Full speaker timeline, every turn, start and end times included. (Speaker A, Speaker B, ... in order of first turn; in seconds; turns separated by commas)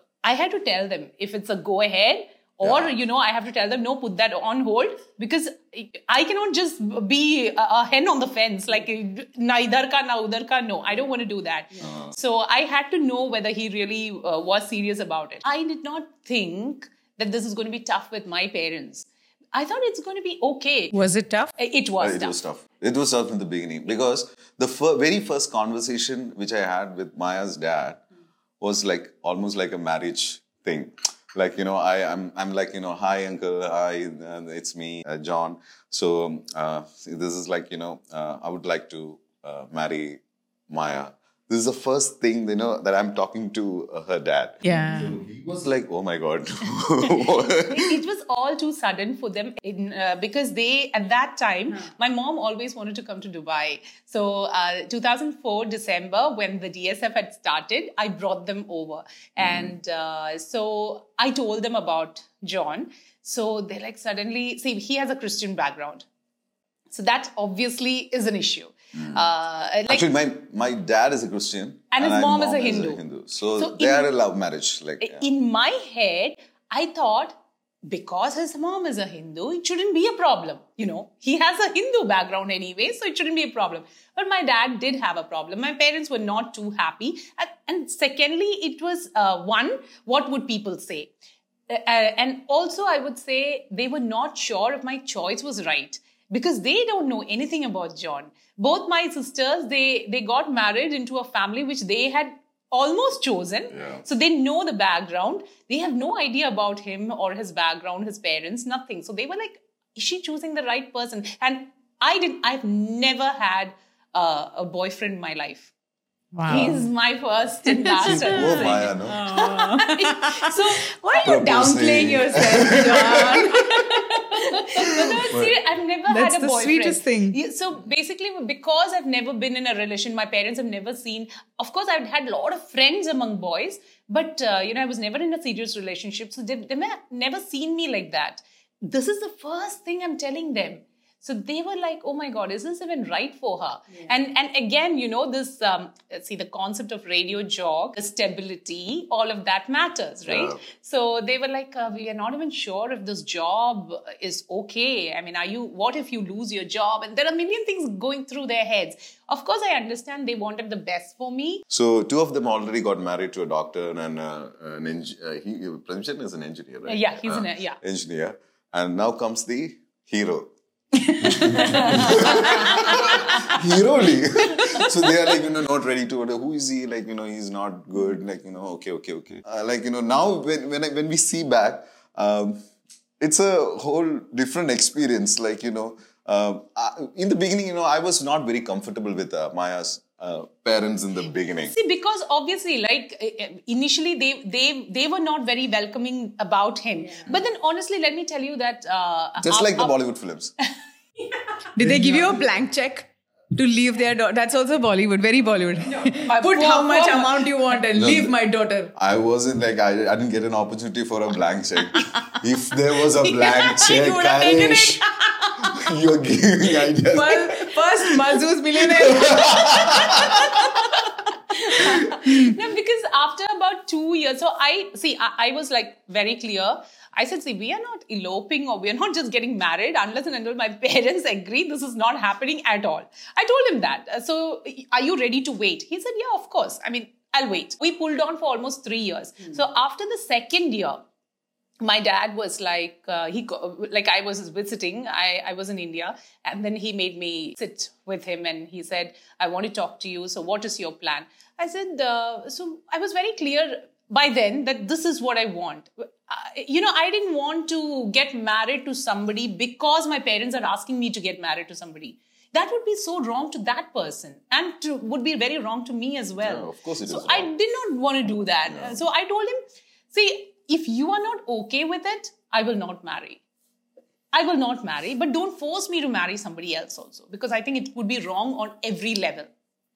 Speaker A: 0.2-21.0, Speaker B: 2.6-2.9, Speaker B: 11.8-12.1, Speaker C: 20.9-21.5, Speaker A: 21.6-22.4, Speaker B: 22.0-28.0, Speaker B: 28.6-48.0, Speaker C: 44.6-45.2, Speaker A: 47.6-66.0, Speaker B: 59.4-59.7, Speaker A: 66.9-70.0, Speaker B: 69.9-75.3, Speaker A: 71.9-73.0, Speaker A: 73.6-74.1, Speaker A: 75.0-91.1, Speaker A: 91.7-115.7, Speaker C: 116.3-116.8, Speaker A: 116.5-121.0, Speaker C: 117.7-123.8, Speaker B: 118.0-119.2, Speaker B: 121.2-123.5, Speaker A: 123.2-161.6, Speaker B: 125.0-125.5, Speaker C: 126.1-127.4, Speaker B: 150.3-150.6, Speaker B: 161.7-170.5, Speaker A: 166.9-167.8, Speaker C: 171.2-172.5, Speaker B: 171.2-182.6, Speaker B: 183.2-191.7, Speaker A: 191.7-199.9, Speaker B: 199.4-200.5, Speaker C: 201.8-208.9, Speaker A: 206.2-207.5, Speaker B: 207.9-208.3, Speaker B: 208.9-215.1, Speaker C: 213.4-215.8, Speaker B: 215.6-217.8, Speaker C: 217.1-220.0, Speaker B: 218.8-220.8, Speaker A: 221.6-241.0, Speaker C: 221.7-222.6, Speaker A: 241.8-273.4, Speaker B: 266.4-267.5, Speaker B: 268.7-269.0, Speaker A: 274.3-279.5